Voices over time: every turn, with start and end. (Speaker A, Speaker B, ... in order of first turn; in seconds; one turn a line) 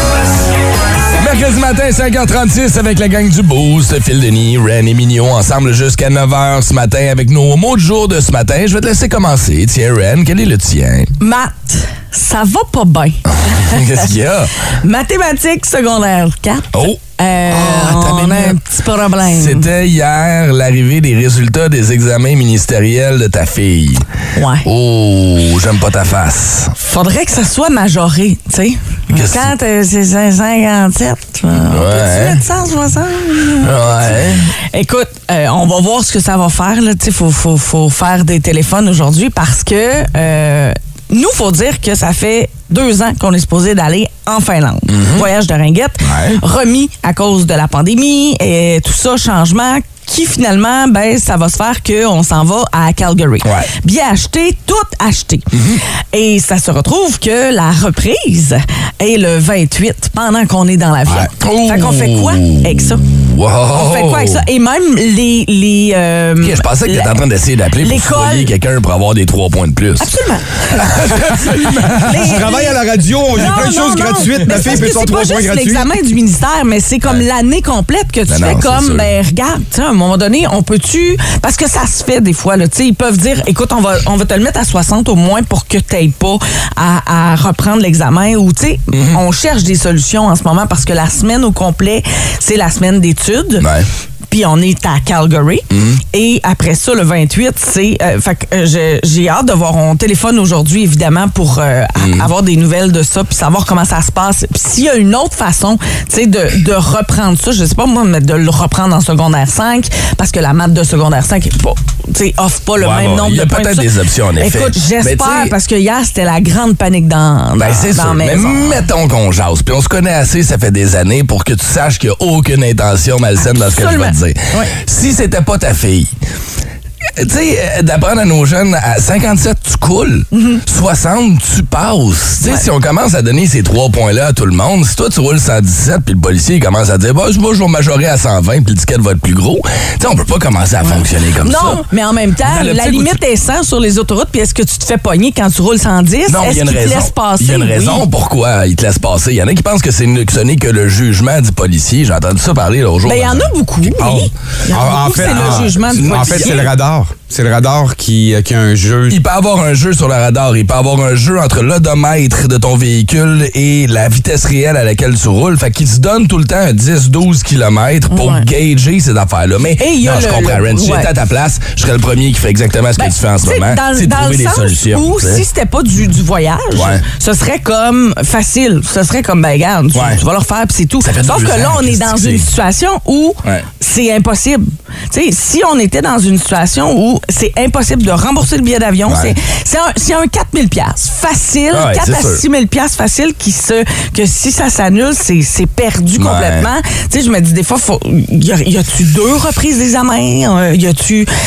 Speaker A: 1.2-11.1
Speaker B: 11.2-14.1
Speaker A: 13.3-14.5
Speaker B: 14.8-19.7
Speaker A: 16.7-17.0
Speaker A: 17.5-18.6
Speaker A: 19.2-24.1
Speaker B: 24.4-24.7
Speaker A: 24.6-26.7
Speaker B: 26.8-55.5
Speaker A: 29.1-29.5
Speaker A: 31.7-32.4
Speaker A: 33.6-34.5
Speaker A: 44.9-45.3
Speaker A: 46.0-46.4
Speaker A: 53.4-53.7
Speaker A: 55.5-55.8
Speaker B: 56.1-63.0
Speaker A: 61.4-64.4
Speaker B: 63.8-67.1
Speaker A: 66.4-72.5
Speaker B: 67.8-68.5
Speaker B: 70.0-72.8
Speaker C: 72.1-75.9
Speaker B: 73.3-93.7
Speaker A: 74.3-74.9
Speaker A: 78.3-79.1
Speaker A: 88.9-89.2
Speaker A: 93.6-93.9
Speaker B: 94.3-118.8
Speaker A: 95.7-96.0
Speaker A: 102.0-102.3
Speaker A: 112.8-115.5
Speaker A: 117.6-126.1
Speaker B: 123.4-124.7
Speaker A: 127.2-141.8
Speaker B: 130.3-130.6
Speaker B: 140.9-148.1
Speaker A: 142.4-143.2
Speaker A: 146.3-154.3
Speaker B: 153.1-156.7
Speaker C: 154.7-159.2
Speaker A: 155.0-156.7
Speaker A: 159.1-175.4
Speaker B: 168.1-168.5
Speaker B: 169.8-171.1
Speaker B: 173.0-201.3
Speaker A: 176.7-177.0
Speaker A: 179.9-180.2
Speaker A: 181.0-182.4
Speaker A: 189.1-189.3
Speaker A: 191.7-192.4
Speaker A: 196.2-196.7